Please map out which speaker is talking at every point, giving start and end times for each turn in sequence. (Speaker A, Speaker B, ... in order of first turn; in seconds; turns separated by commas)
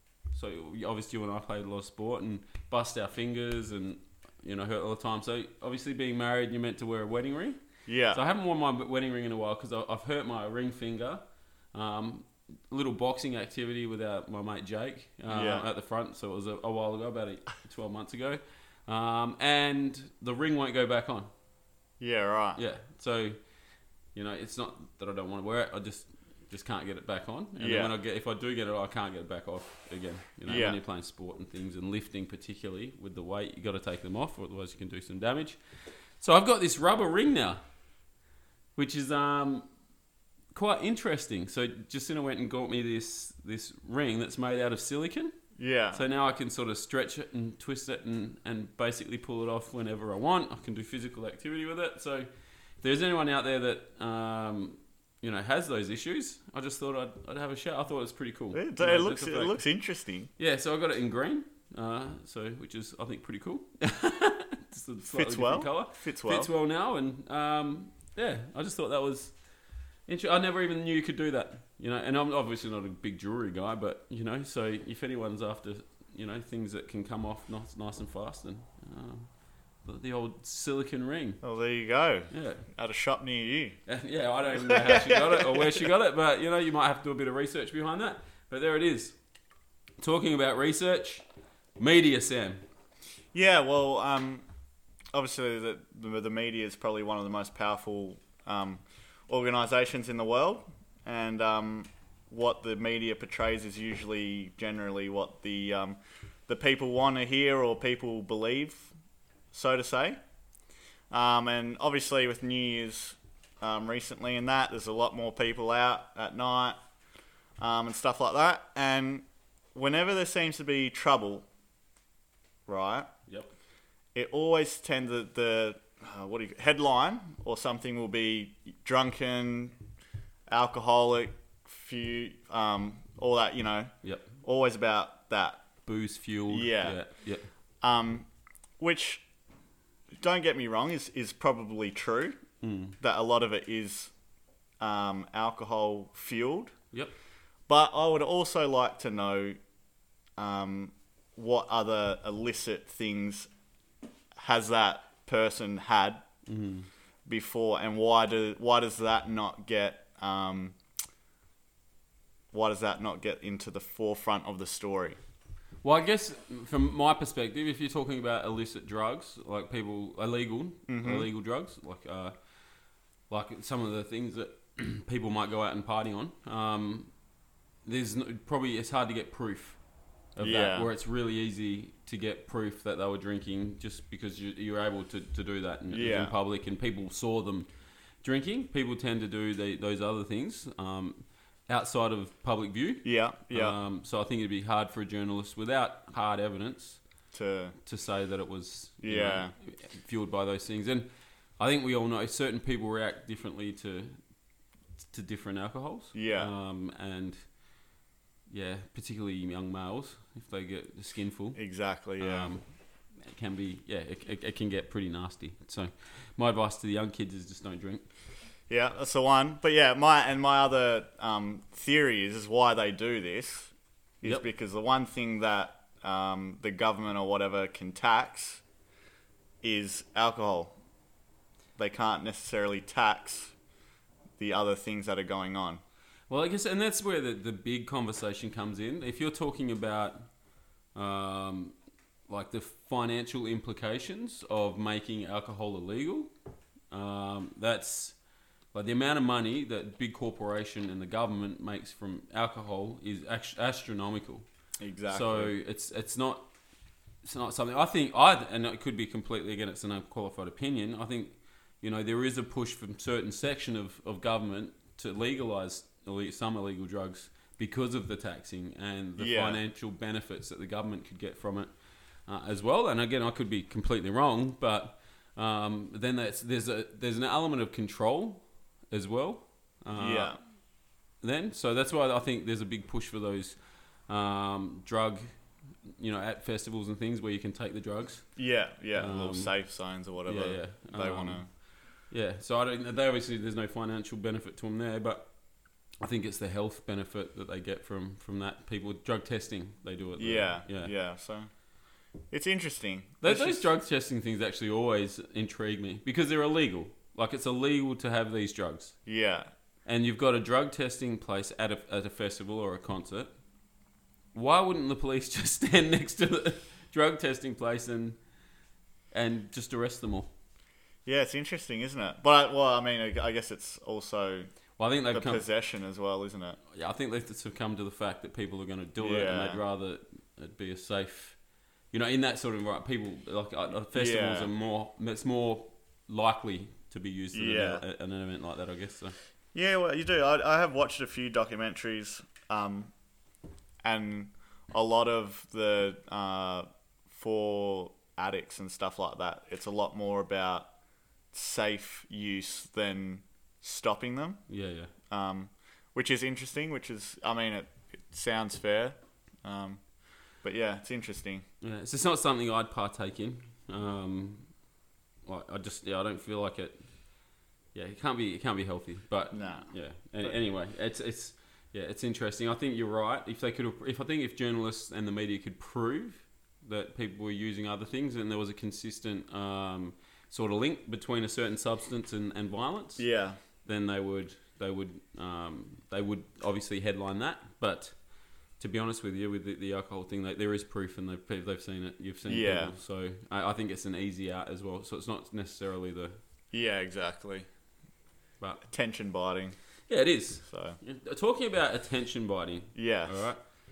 Speaker A: 0.3-7.6, Speaker B: 7.9-8.2, Speaker A: 8.1-11.2, Speaker A: 11.7-21.3, Speaker B: 15.3-15.7, Speaker B: 22.0-22.6, Speaker A: 22.6-23.4, Speaker A: 24.1-35.6, Speaker B: 27.6-27.9, Speaker B: 30.5-30.8, Speaker A: 36.2-37.6, Speaker A: 38.8-39.7, Speaker A: 40.5-45.3, Speaker B: 45.6-46.0, Speaker A: 45.9-52.3, Speaker A: 52.8-59.6, Speaker B: 58.5-60.3, Speaker A: 60.4-69.3, Speaker B: 65.0-66.5, Speaker A: 70.1-79.3, Speaker A: 79.8-81.4, Speaker B: 81.4-83.8, Speaker A: 82.3-82.7, Speaker A: 83.9-89.2, Speaker B: 84.5-85.9, Speaker A: 90.0-91.2, Speaker A: 91.8-92.6, Speaker B: 93.3-94.4, Speaker B: 95.1-108.9, Speaker B: 109.5-110.2, Speaker B: 111.1-116.8, Speaker B: 117.6-121.5, Speaker B: 122.7-123.1, Speaker B: 124.1-129.7, Speaker B: 130.5-133.9, Speaker A: 134.0-134.3, Speaker B: 134.4-135.6, Speaker A: 135.8-137.5, Speaker B: 136.5-137.0, Speaker B: 137.8-138.3, Speaker B: 138.8-139.2, Speaker B: 140.2-142.4, Speaker A: 142.6-142.9, Speaker B: 143.0-144.1, Speaker B: 144.8-146.7, Speaker B: 147.7-149.6, Speaker B: 150.4-153.5, Speaker B: 154.3-156.2, Speaker A: 156.5-156.9, Speaker B: 157.2-160.8, Speaker B: 162.5-165.2, Speaker A: 165.8-172.3, Speaker B: 170.9-171.3, Speaker A: 173.3-177.1, Speaker A: 177.8-179.8, Speaker A: 180.3-187.7, Speaker B: 180.4-180.9, Speaker B: 185.9-186.3, Speaker A: 188.2-197.0, Speaker B: 193.0-193.8, Speaker B: 197.3-197.8, Speaker A: 197.8-204.2, Speaker B: 199.0-199.5, Speaker A: 205.1-207.4, Speaker B: 206.1-206.5, Speaker A: 208.5-211.6, Speaker B: 211.6-212.5, Speaker A: 212.2-212.6, Speaker A: 213.2-218.1, Speaker B: 218.7-228.6, Speaker B: 229.6-230.7, Speaker B: 231.8-233.5, Speaker B: 234.4-235.8, Speaker A: 236.3-240.3, Speaker A: 240.9-241.7, Speaker A: 242.3-246.3, Speaker A: 246.9-248.2, Speaker A: 248.7-254.4, Speaker B: 254.8-255.5, Speaker A: 255.1-256.5, Speaker A: 257.2-271.7, Speaker B: 269.2-269.6, Speaker A: 272.3-280.4, Speaker B: 279.9-280.4, Speaker A: 281.2-283.6, Speaker A: 284.1-285.3, Speaker A: 286.0-288.2, Speaker B: 288.4-291.5, Speaker A: 288.9-289.5, Speaker A: 290.2-291.4, Speaker A: 292.1-295.3, Speaker A: 296.0-300.9, Speaker B: 300.2-301.5, Speaker B: 302.3-303.7, Speaker A: 303.2-308.9, Speaker B: 309.1-309.5, Speaker A: 309.9-313.3, Speaker A: 314.3-318.2, Speaker A: 319.1-320.3, Speaker B: 321.1-324.5, Speaker A: 324.8-325.4, Speaker B: 325.1-326.6, Speaker A: 326.7-331.4, Speaker B: 329.0-329.6, Speaker A: 331.9-339.1, Speaker B: 333.9-334.5, Speaker B: 337.3-337.8, Speaker B: 339.5-342.9, Speaker B: 343.8-350.7, Speaker B: 351.3-354.4, Speaker A: 354.5-354.9, Speaker B: 355.1-359.8, Speaker B: 360.4-361.4, Speaker A: 361.6-364.5, Speaker A: 365.2-366.8, Speaker A: 367.7-383.0, Speaker B: 369.3-369.7, Speaker B: 383.0-383.4, Speaker A: 383.6-387.9, Speaker A: 388.6-396.2, Speaker B: 392.3-392.7, Speaker B: 396.5-397.5, Speaker B: 398.6-399.6, Speaker A: 399.9-403.4, Speaker B: 400.4-400.8, Speaker B: 402.7-403.3